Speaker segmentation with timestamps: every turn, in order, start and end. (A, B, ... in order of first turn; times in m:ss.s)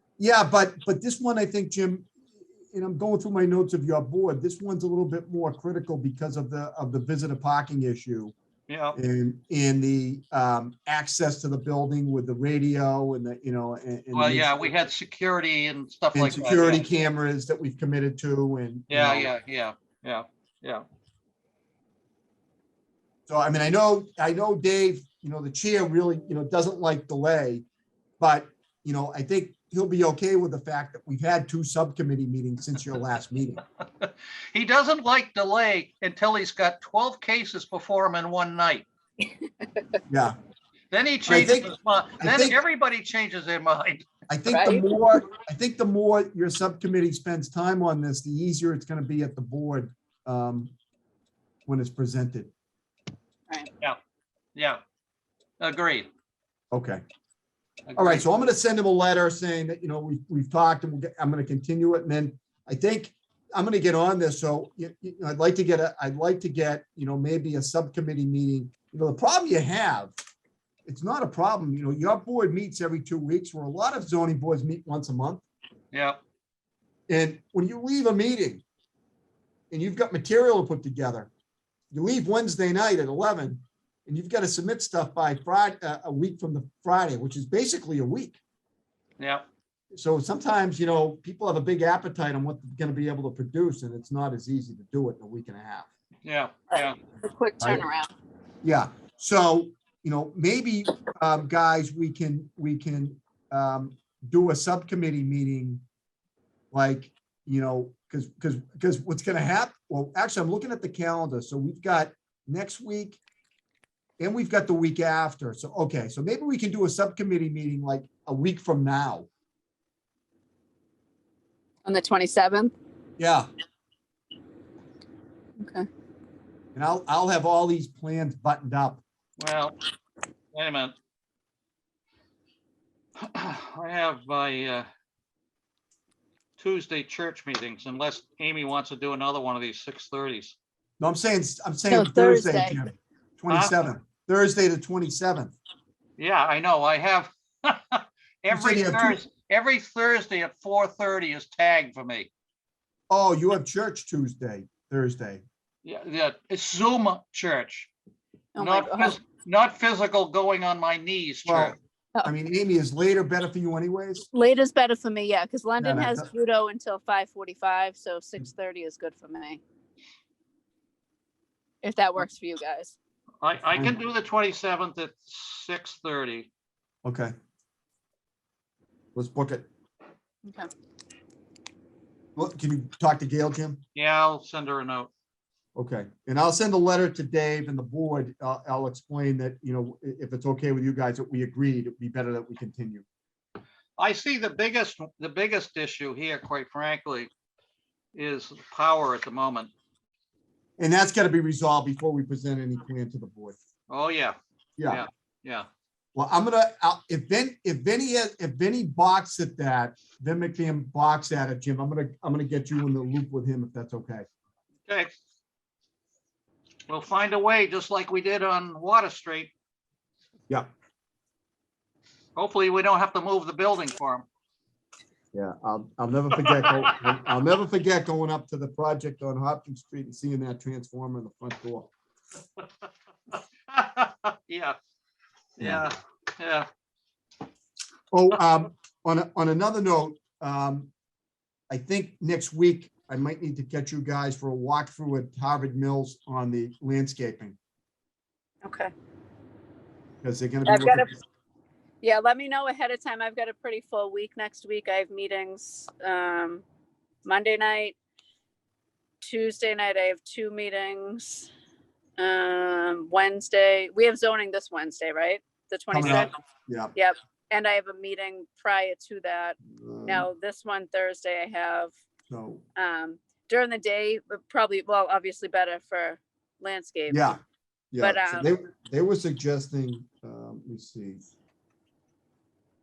0:00.2-0:02.1 A
0:02.7-0:08.3 A
0:08.7-0:09.0 B
0:08.9-0:14.7 A
0:14.1-0:16.9 B
0:16.1-0:19.3 A
0:18.9-0:20.8 B
0:23.3-0:27.6 A
0:28.2-0:33.6 A
0:34.0-0:38.9 B
0:40.1-0:40.4 A
0:40.9-0:44.1 B
0:41.2-0:42.6 A
0:44.3-0:50.7 A
0:44.5-0:44.8 C
0:51.6-0:52.5 A
0:55.6-0:56.1 B
0:56.7-0:57.0 A
0:57.9-0:58.2 B
0:58.0-1:10.1 A
1:10.8-1:15.4 A
1:15.9-1:16.2 B
1:17.1-1:18.6 A
1:19.7-1:21.3 A
1:21.9-1:28.4 A
1:29.2-1:29.5 B
1:29.9-1:35.9 A
1:36.2-1:37.0 B
1:36.7-1:38.1 C
1:38.6-1:45.8 A
1:46.7-1:53.2 A
1:54.2-1:59.3 A
2:01.8-2:02.7 C
2:03.2-2:03.5 A
2:05.6-2:05.8 C
2:06.7-2:09.0 A
2:09.4-2:09.7 B
2:10.5-2:10.9 B
2:13.2-2:14.9 B
2:16.6-2:20.6 B
2:21.0-2:25.5 A
2:21.9-2:22.8 C
2:23.5-2:23.8 B
2:26.2-2:32.3 B
2:28.5-2:29.2 A
2:33.1-2:35.4 A
2:35.8-2:37.9 B
2:38.5-2:39.2 C
2:38.6-2:41.8 B
2:41.4-2:44.2 A
2:44.3-2:49.6 C
2:45.8-2:46.3 A
2:51.8-2:52.9 C
2:53.4-2:56.5 B
2:57.0-2:57.3 A
2:59.1-2:59.7 A
3:02.4-3:03.8 A
3:03.9-3:05.1 B
3:05.8-3:13.0 A
3:14.0-3:17.3 B
3:18.1-3:19.7 B
3:20.8-3:23.6 A
3:23.9-3:24.4 B
3:24.8-3:25.0 A
3:24.9-3:25.7 B
3:26.1-3:34.2 A
3:34.9-3:35.1 B
3:36.9-3:39.5 B
3:42.4-3:44.2 B
3:45.3-3:51.9 A
3:46.4-3:46.9 B
3:53.7-3:54.8 B
3:55.6-3:56.7 B
3:58.1-4:00.9 A
4:01.7-4:07.6 A
4:08.6-4:08.9 C
4:10.2-4:11.1 A
4:10.6-4:11.1 C
4:12.0-4:16.6 C
4:17.2-4:18.0 C
4:19.2-4:21.5 C
4:22.2-4:26.3 C
4:25.9-4:26.9 A
4:26.9-4:31.9 C
4:29.7-4:30.3 A
4:32.3-4:32.6 A
4:32.8-4:37.3 C
4:37.1-4:37.4 A
4:37.9-4:41.2 A
4:38.0-4:38.5 C